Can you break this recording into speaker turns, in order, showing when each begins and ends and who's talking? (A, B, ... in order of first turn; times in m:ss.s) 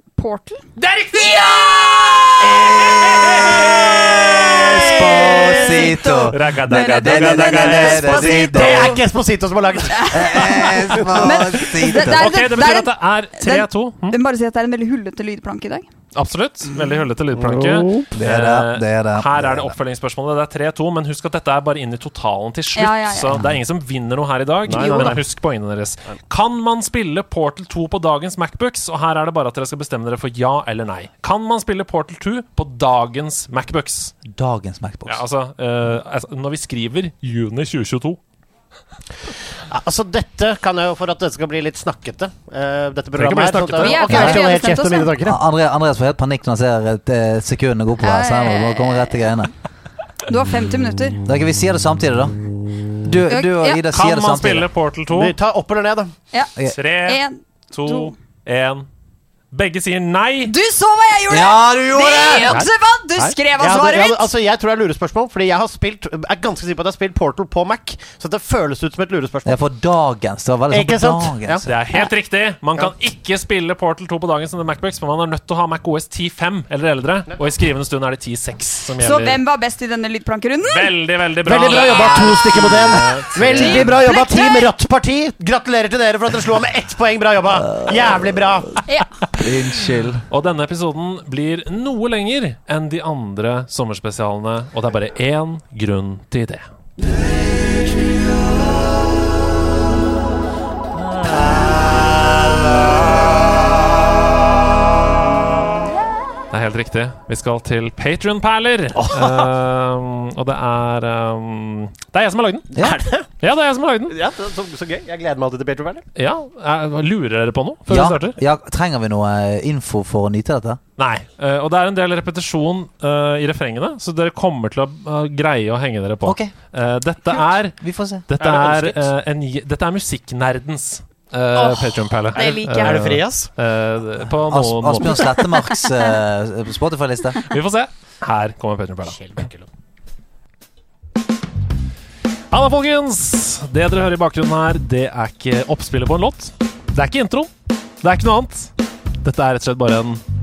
0:00.2-0:00.6 A
0:00.8-0:08.4 B
0:04.3-0:09.0 C
0:04.6-0:09.0 A
0:07.9-0:11.6 D
0:09.9-0:15.9 A
0:10.1-0:12.5 C
0:12.1-0:14.2 B
0:16.2-0:34.2 B
0:17.3-0:18.1 D
0:18.1-0:19.7 C
0:22.8-0:23.4 A
0:23.3-0:23.6 C
0:24.6-0:25.2 D
0:24.7-0:25.1 A
0:34.2-0:35.2 C
0:35.1-0:38.2 B
0:39.7-0:45.4 D
0:43.2-0:44.2 B
0:43.5-0:44.4 C
0:43.8-0:45.2 A
0:45.2-0:49.5 C
0:48.0-0:49.5 A
0:50.3-0:51.2 A
0:51.3-0:52.4 C
0:53.0-0:54.7 C
0:53.3-0:53.8 A
0:53.9-0:55.4 B
0:55.1-0:56.1 D
0:56.7-0:58.9 B
0:57.0-0:58.1 A
0:59.5-1:00.5 B
1:00.5-1:04.3 A
1:01.3-1:02.6 C
1:02.5-1:09.6 D
1:09.4-1:11.7 C
1:10.7-1:11.7 D
1:11.6-1:19.4 B
1:19.0-1:20.9 A
1:20.6-1:24.0 B
1:21.4-1:28.8 D
1:21.7-1:22.7 A
1:23.5-1:24.7 A
1:28.9-1:29.1 A
1:29.3-1:30.2 C
1:30.3-1:36.7 B
1:46.5-1:52.7 B
1:49.0-1:49.5 D
1:52.7-1:53.3 D
1:53.4-1:54.2 B
1:54.1-1:56.1 D
1:56.2-1:58.4 B
1:57.9-2:00.8 C
2:01.0-2:15.4 B
2:06.2-2:06.5 C
2:07.8-2:08.2 C
2:08.4-2:09.1 D
2:12.3-2:13.0 A
2:12.4-2:13.5 D
2:14.4-2:17.5 C
2:17.5-2:19.2 B
2:19.0-2:19.7 D
2:22.5-2:27.5 B
2:28.0-2:30.2 B